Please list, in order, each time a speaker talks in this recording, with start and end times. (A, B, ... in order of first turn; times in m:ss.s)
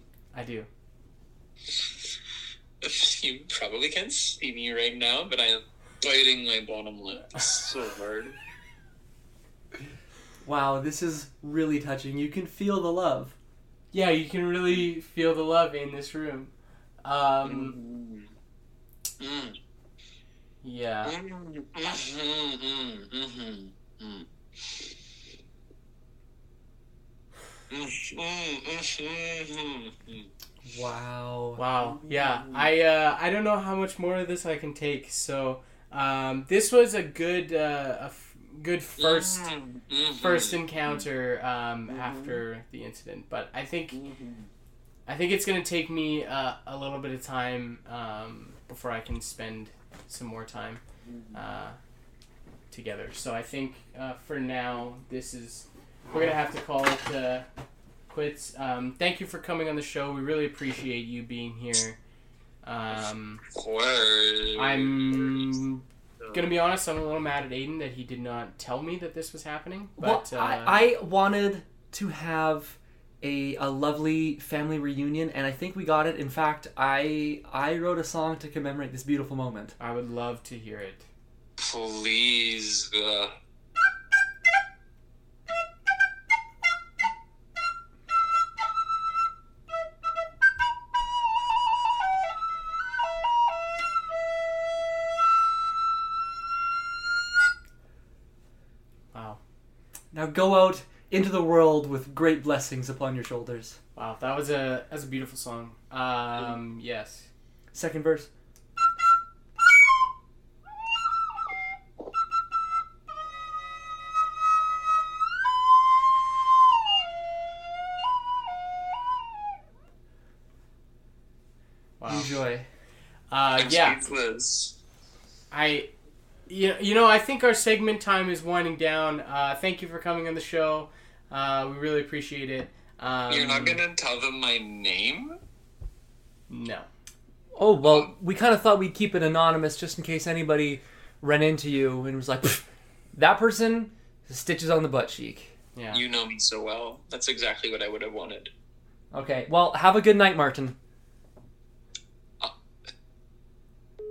0:00.3-0:00.7 A
0:02.8-0:08.4 B
0:10.4-0:13.3 C
0:13.9-0:16.5 A
0:17.0-0:17.7 A
0:17.4-0:18.3 B
0:19.2-0:19.6 B
0:20.6-0:21.1 A
0:21.0-0:24.9 B
0:27.7-0:30.3 B
0:30.6-0:31.6 C
0:31.6-0:39.5 A
0:39.0-0:40.9 B
0:40.2-0:44.0 A
0:44.0-0:44.4 B
0:45.0-0:50.8 A
0:51.3-0:51.8 A
0:52.7-0:57.4 A
0:58.1-1:02.0 A
1:02.6-1:03.4 A
1:03.4-1:05.5 B
1:04.6-1:10.8 A
1:10.0-1:19.7 C
1:19.8-1:21.0 A
1:21.6-1:23.3 B
1:39.1-1:39.4 A
1:40.1-1:43.8 C
1:44.0-1:47.3 A
1:47.7-1:48.3 C
2:02.0-2:02.4 A
2:02.1-2:02.7 C
2:03.3-2:04.0 A
2:03.6-2:04.8 B
2:05.5-2:05.9 A
2:06.5-2:13.8 A
2:13.3-2:15.4 B
2:16.5-2:16.9 A
2:17.5-2:25.5 C
2:25.7-2:26.0 A
2:25.9-2:28.5 B
2:29.1-2:30.8 C